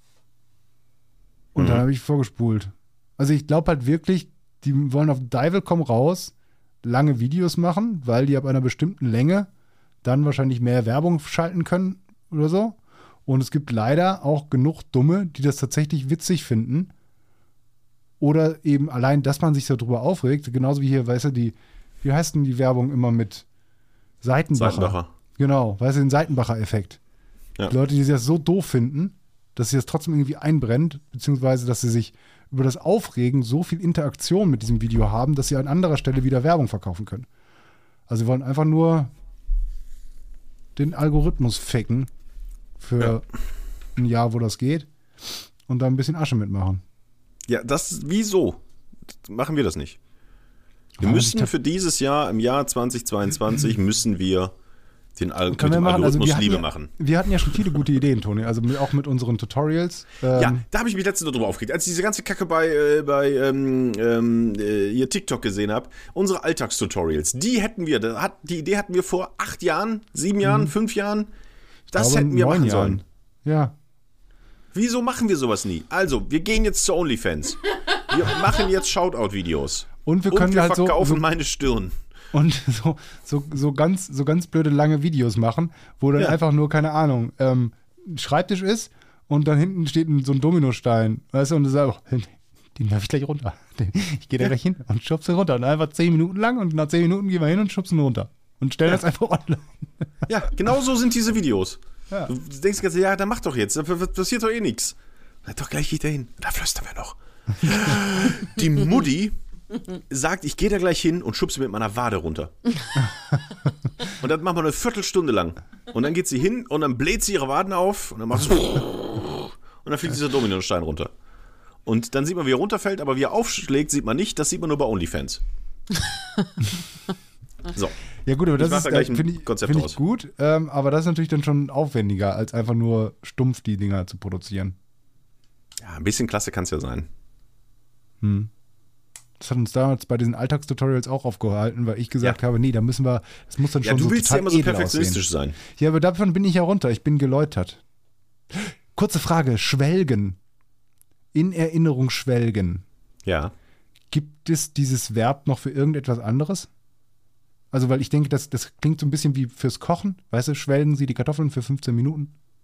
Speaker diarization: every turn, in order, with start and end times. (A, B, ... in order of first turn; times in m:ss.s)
0:01.5-0:09.5 A
0:01.6-0:01.8 B
0:10.0-0:16.9 A
0:18.2-0:23.4 A
0:24.2-0:27.0 A
0:24.5-0:25.1 B
0:27.7-0:37.3 A
0:38.1-0:39.1 A
0:40.8-0:42.1 A
0:42.8-0:43.2 A
0:44.0-0:46.8 A
0:47.5-0:48.6 B
0:49.2-0:50.0 B
0:51.0-0:51.5 A
0:51.0-0:54.5 B
0:55.2-0:56.9 B
0:55.5-1:00.6 A
0:57.4-0:57.8 B
1:00.3-1:11.3 B
1:10.4-1:10.7 A
1:11.9-1:13.0 B
1:11.9-1:13.8 A
1:14.7-1:22.0 B
1:20.0-1:21.2 A
1:22.3-1:40.3 A
1:40.3-1:49.3 B
1:50.1-1:52.5 B
1:54.0-2:01.1 B
2:01.8-2:05.4 B
2:07.7-2:08.0 B
2:08.2-2:14.8 A
2:08.6-2:10.0 B
2:15.8-2:17.1 B
2:18.2-2:18.5 A
2:19.4-2:27.8 A
2:23.8-2:25.6 B
2:28.5-2:30.4 A
2:31.3-2:32.8 A
2:33.2-2:33.5 B
2:34.1-2:36.7 A
2:37.7-2:42.3 A